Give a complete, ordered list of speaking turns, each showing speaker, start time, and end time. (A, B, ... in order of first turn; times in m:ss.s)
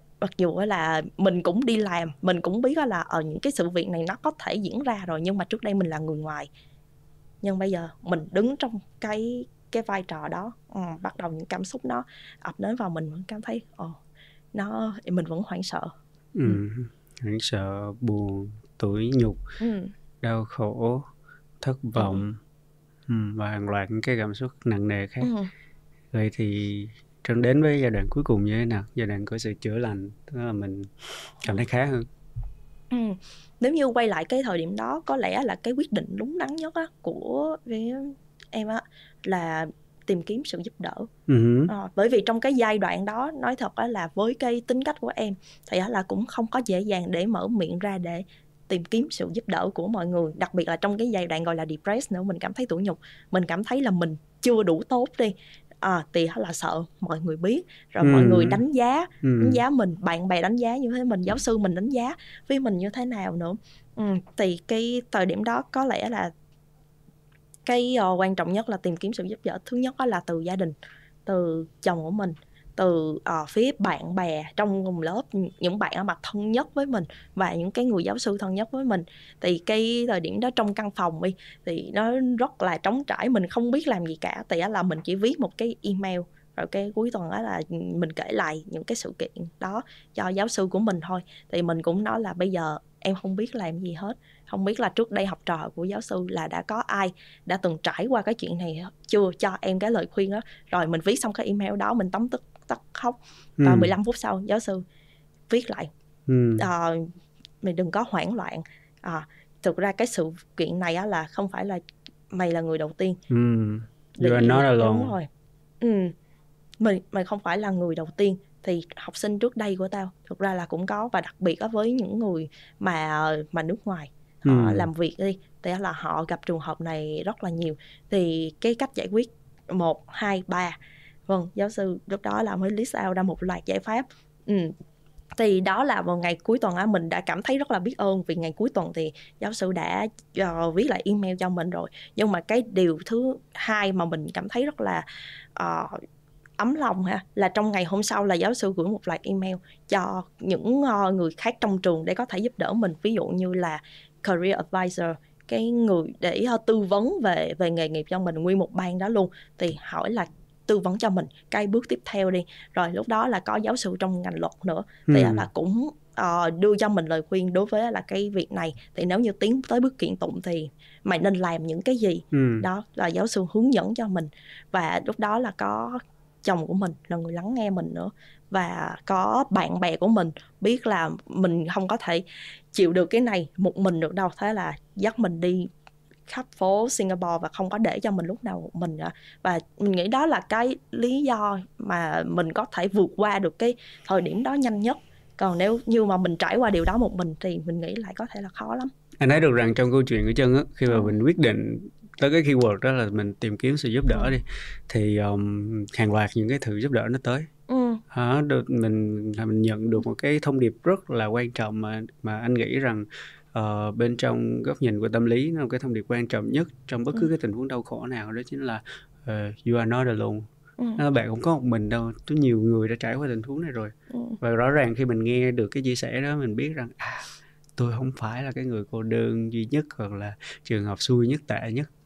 0:00.2-0:06.5 A
0:07.4-0:14.0 A
0:14.5-0:15.9 A
0:16.3-0:19.4 B
0:19.6-0:19.9 A
0:20.2-0:21.0 B
0:21.6-0:22.4 B
0:23.1-0:25.3 B
0:25.2-0:25.5 A
0:26.1-0:32.0 B
0:32.9-0:41.1 A
0:41.3-0:41.7 B
0:41.7-1:06.3 A
0:58.0-0:58.6 B
0:59.2-0:59.6 B
1:07.6-1:10.7 A
1:11.2-1:44.8 A
1:43.6-1:43.9 B
1:45.5-1:45.9 A
1:46.3-1:46.7 B
1:46.6-1:51.8 A
1:52.3-1:53.2 A
1:53.3-1:55.1 B
1:54.2-1:55.3 A
1:55.8-1:56.1 A
1:56.8-2:10.8 A
2:04.4-2:04.9 B
2:11.3-2:14.7 A
2:15.4-2:26.0 A
2:26.6-3:05.7 A
2:45.1-2:45.5 B
2:52.3-2:52.7 B
3:06.3-3:18.9 A
3:19.2-3:27.5 B
3:20.9-3:21.1 A
3:27.7-3:28.0 A
3:28.1-3:51.9 B
3:44.1-3:44.4 A